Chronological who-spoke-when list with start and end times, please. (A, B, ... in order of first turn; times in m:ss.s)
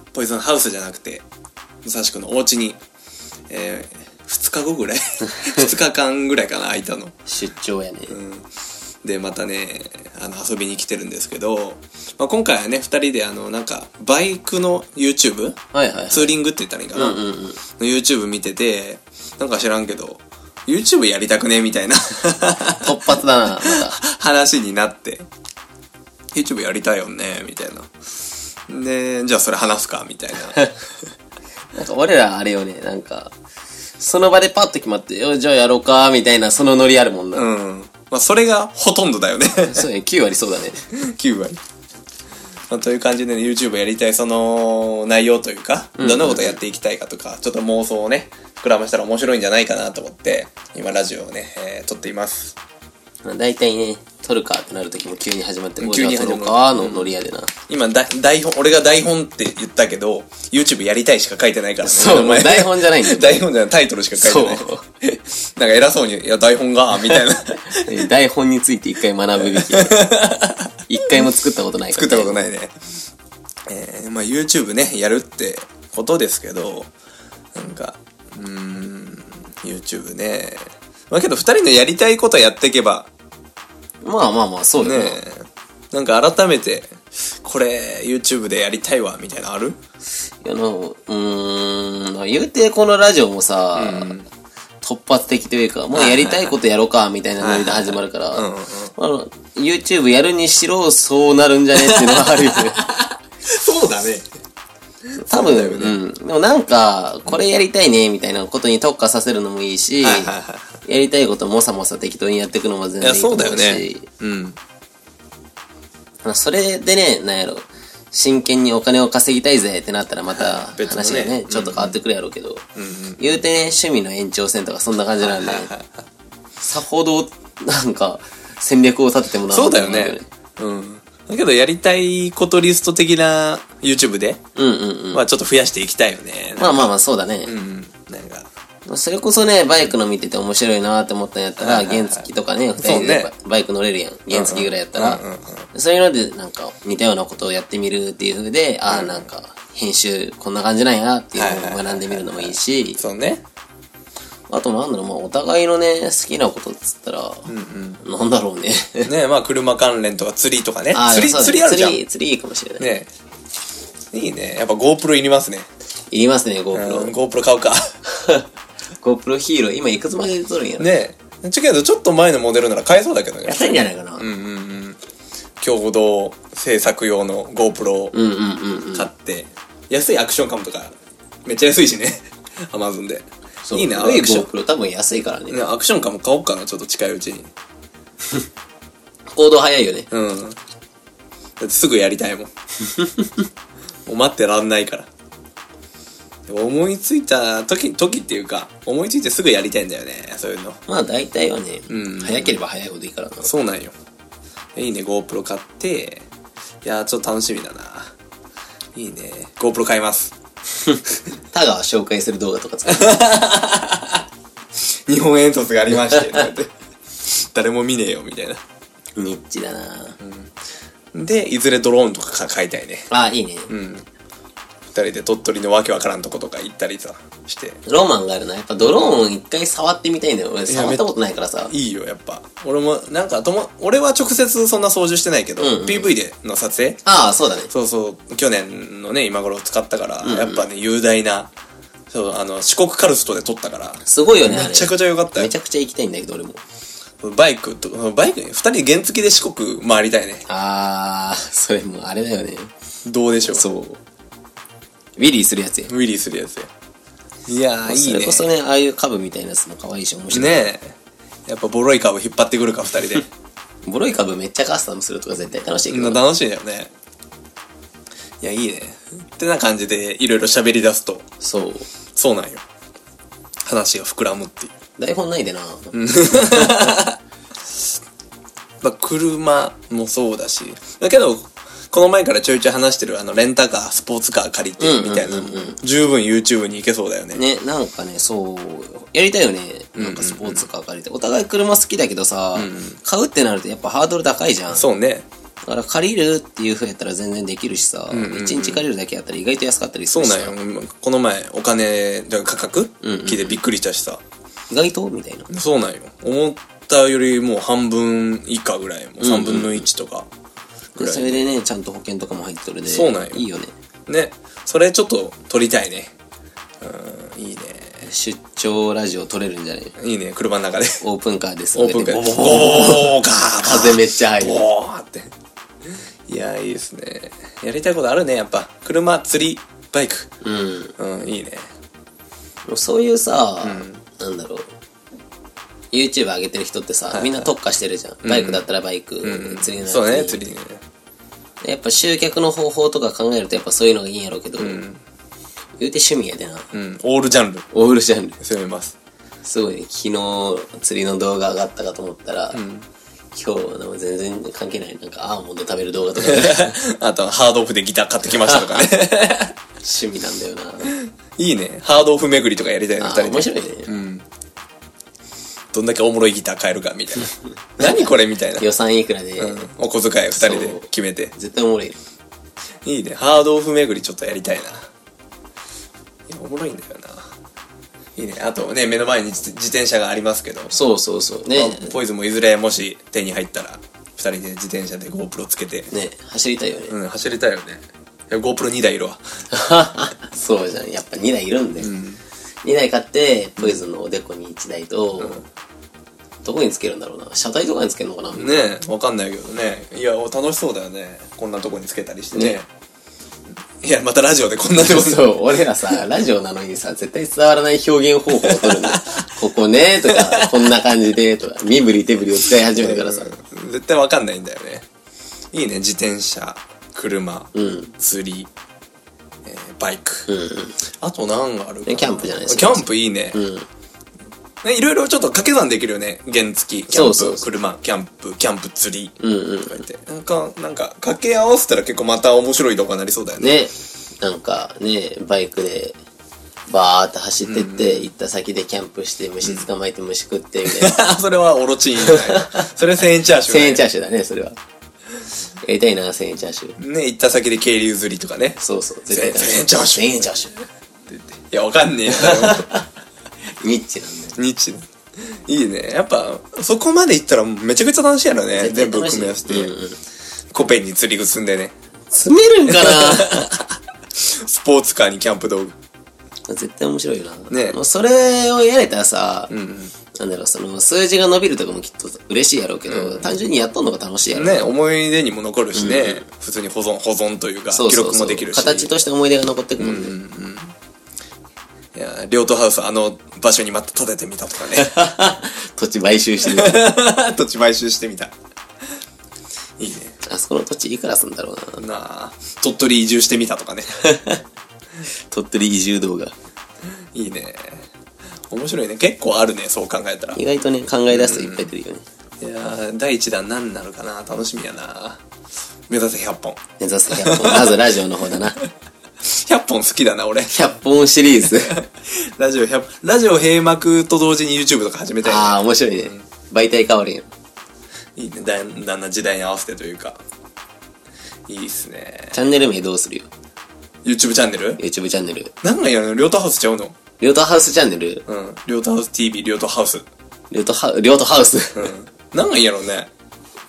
0:00.1-0:01.2 A
0:01.8-0:02.8 A
0:03.5-0:07.2 A
0:07.3-0:08.2 B
0:08.1-0:08.5 A
0:09.0-0:15.6 A
0:15.7-0:16.4 B
0:16.1-0:17.2 A
0:17.0-0:17.6 B
0:17.8-0:25.3 A
0:22.8-0:24.0 B
0:26.3-0:27.9 A
0:28.7-0:30.7 A
0:31.7-0:33.3 B
0:34.0-0:37.5 B
0:37.3-0:39.9 A
0:39.7-0:40.8 B
0:40.9-0:41.6 A
0:42.7-0:52.6 A
0:46.0-0:46.6 B
0:53.2-0:57.5 B
0:55.8-0:57.2 A
0:57.7-1:08.1 A
1:01.8-1:03.4 B
1:04.2-1:04.8 B
1:07.9-1:10.1 B
1:09.4-1:11.3 A
1:10.9-1:12.5 B
1:11.9-1:12.8 A
1:13.7-1:16.9 A
1:17.5-1:23.1 A
1:24.0-1:25.2 B
1:24.8-1:29.8 A
1:30.4-1:34.1 B
1:33.8-1:34.3 A
1:34.8-1:42.8 B
1:35.9-1:36.6 A
1:37.4-1:38.9 A
1:41.9-1:44.3 A
1:45.2-1:46.0 A
1:45.3-1:50.3 B
1:50.0-1:50.8 A
1:50.8-1:54.1 B
1:53.0-1:54.6 A
1:56.2-2:02.6 B
2:00.3-2:02.0 A
2:02.8-2:03.4 A
2:03.2-2:05.7 B
2:05.2-2:06.1 A
2:06.6-2:10.3 B
2:09.5-2:14.4 A
2:14.6-2:15.2 B
2:15.1-2:16.9 A
2:16.6-2:17.5 B
2:17.4-2:18.5 A
2:18.9-2:25.2 B
2:21.6-2:22.3 A
2:22.8-2:23.3 A
2:24.3-2:25.7 A
2:25.7-2:33.0 B
2:28.9-2:29.3 A
2:31.4-2:33.4 A
2:34.5-2:37.5 B
2:37.5-2:38.0 A
2:38.0-2:39.1 B
2:39.0-2:42.0 A
2:40.9-2:42.9 B
2:42.8-2:43.1 A
2:44.1-2:45.7 A
2:46.1-2:47.1 B
2:46.7-2:47.9 A
2:48.1-2:48.5 B
2:49.0-2:51.0 B
2:50.8-2:55.0 A
2:53.5-2:54.2 B
2:55.6-2:58.2 A
2:58.1-2:59.1 B
2:58.9-3:04.5 A
3:03.6-3:05.6 B
3:05.5-3:07.5 A
3:09.3-3:10.1 B
3:10.1-3:10.6 A
3:11.6-3:12.5 A
3:12.9-3:13.4 B
3:14.1-3:15.1 A
3:16.5-3:20.8 A
3:20.9-3:23.5 B
3:21.9-3:22.6 A
3:23.4-3:23.9 A
3:24.8-3:26.3 A
3:26.8-3:28.1 A
3:29.0-3:30.4 A
3:30.8-3:33.3 B
3:32.9-3:34.2 A
3:35.1-3:36.7 A
3:37.2-3:38.6 A
3:39.2-3:40.2 B
3:40.2-3:40.5 A
3:41.1-3:43.1 A
3:43.1-3:43.7 B
3:43.7-3:44.1 A
3:44.9-3:47.8 A
3:47.9-3:51.7 B
3:48.8-3:49.2 A
3:50.7-3:51.1 A
3:51.7-3:57.0 A
3:55.6-3:56.2 B
3:57.1-3:57.7 B
3:57.7-4:01.5 A
4:00.2-4:00.7 B
4:02.1-4:05.5 A
4:04.0-4:06.6 B
4:07.2-4:10.5 A
4:10.5-4:12.7 B
4:13.1-4:13.7 A
4:13.5-4:14.0 B
4:15.2-4:15.9 B
4:15.9-4:16.7 A
4:17.5-4:18.5 A
4:17.8-4:20.7 B
4:20.3-4:23.3 A
4:23.8-4:26.2 B
4:25.9-4:26.9 A
4:28.4-4:31.3 A
4:31.4-4:31.9 B
4:32.2-4:32.6 A
4:33.6-4:34.7 A
4:35.0-4:36.9 B
4:35.9-4:37.2 A
4:38.8-4:47.4 A
4:44.8-4:45.8 B
4:47.3-4:54.9 B
4:50.0-4:50.7 A
4:52.6-4:53.0 A
4:54.7-4:55.3 A
4:55.6-5:00.6 B
4:58.1-4:58.8 A
5:00.1-5:04.2 A
5:03.0-5:03.6 B
5:04.7-5:05.5 B
5:05.5-5:10.3 A
5:09.2-5:09.9 B
5:11.0-5:11.4 A
5:11.0-5:13.7 B
5:12.9-5:13.4 A
5:14.1-5:16.2 A
5:16.8-5:18.1 A
5:18.0-5:20.0 B
5:20.0-5:21.0 A
5:21.0-5:24.7 B
5:21.8-5:25.3 A
5:25.9-5:30.3 A
5:30.4-5:30.9 B
5:31.0-5:31.7 A
5:32.7-5:34.7 B
5:33.6-5:34.0 A
5:35.9-5:40.5 B
5:37.1-5:37.5 A
5:38.2-5:38.6 A
5:39.2-5:40.8 A
5:41.6-5:44.8 B
5:44.6-5:45.0 A
5:45.8-5:46.7 B
5:46.7-5:47.7 A
5:47.7-5:48.4 B
5:48.4-5:49.0 A
5:49.4-5:52.6 B
5:52.5-5:52.9 A
5:53.3-5:56.8 B
5:56.2-5:59.6 A
5:58.3-5:58.9 B
5:59.8-6:00.9 B
6:00.8-6:04.3 A
6:03.0-6:03.9 B
6:05.7-6:08.6 A
6:07.8-6:09.7 B
6:09.4-6:11.3 A
6:10.4-6:12.0 B
6:12.8-6:14.9 A
6:16.3-6:17.3 A
6:18.2-6:20.7 A
6:20.7-6:21.9 B
6:21.5-6:25.9 A
6:25.9-6:26.9 B
6:26.9-6:29.2 A
6:29.5-6:31.9 B
6:31.8-6:32.2 A
6:32.6-6:35.4 B
6:33.6-6:33.8 A
6:35.2-6:35.4 A
6:36.4-6:38.7 B
6:38.3-6:42.7 A
6:43.8-6:46.0 A
6:44.8-6:53.3 B
6:48.4-6:49.3 A
6:50.0-6:50.7 A
6:52.6-6:54.9 A
6:55.5-6:58.5 A
6:57.6-6:57.9 B
6:59.4-7:00.3 A
7:00.3-7:00.8 B
7:01.0-7:03.4 A
7:01.9-7:03.7 B
7:04.6-7:09.2 A
7:06.9-7:07.5 B
7:09.2-7:09.8 B
7:09.7-7:13.6 A
7:13.4-7:16.0 B
7:16.7-7:21.0 B
7:17.4-7:18.1 A
7:19.4-7:19.7 A
7:20.7-7:23.8 A
7:22.0-7:22.7 B
7:23.5-7:24.6 B
7:25.6-7:26.8 B
7:26.8-7:28.6 A
7:28.6-7:30.6 B
7:29.1-7:30.5 A
7:31.1-7:32.7 A
7:32.1-7:32.9 B
7:33.6-7:34.4 B
7:34.4-7:39.8 A
7:38.6-7:40.0 B
7:40.5-7:41.8 A
7:42.1-7:43.5 B
7:42.7-7:45.8 A
7:46.5-7:49.5 B
7:47.5-7:47.8 A
7:49.5-7:49.9 A
7:50.1-7:54.7 B
7:52.9-7:53.4 A
7:54.3-7:59.0 A
7:55.8-7:56.2 B
7:57.7-8:00.2 B
7:59.8-8:00.8 A
8:01.9-8:04.9 A
8:04.8-8:06.9 B
8:06.4-8:08.3 A
8:09.8-8:10.2 A
8:10.3-8:11.8 B
8:11.8-8:14.0 A
8:14.0-8:14.4 B
8:15.3-8:16.3 B
8:17.1-8:17.9 A
8:18.5-8:20.4 A
8:20.4-8:22.0 B
8:21.1-8:21.7 A
8:22.4-8:25.2 A
8:25.9-8:26.6 A
8:26.8-8:28.6 B
8:27.1-8:27.8 A
8:29.2-8:30.6 A
8:30.5-8:31.8 B
8:31.5-8:36.2 A
8:35.2-8:37.3 B
8:38.2-8:40.2 A
8:41.5-8:42.4 A
8:42.3-8:43.3 B
8:44.0-8:44.8 A
8:44.8-8:45.5 B
8:45.6-8:47.0 A
8:47.2-8:48.2 B
8:48.3-8:50.1 A
8:50.5-8:51.9 B
8:51.8-8:53.1 A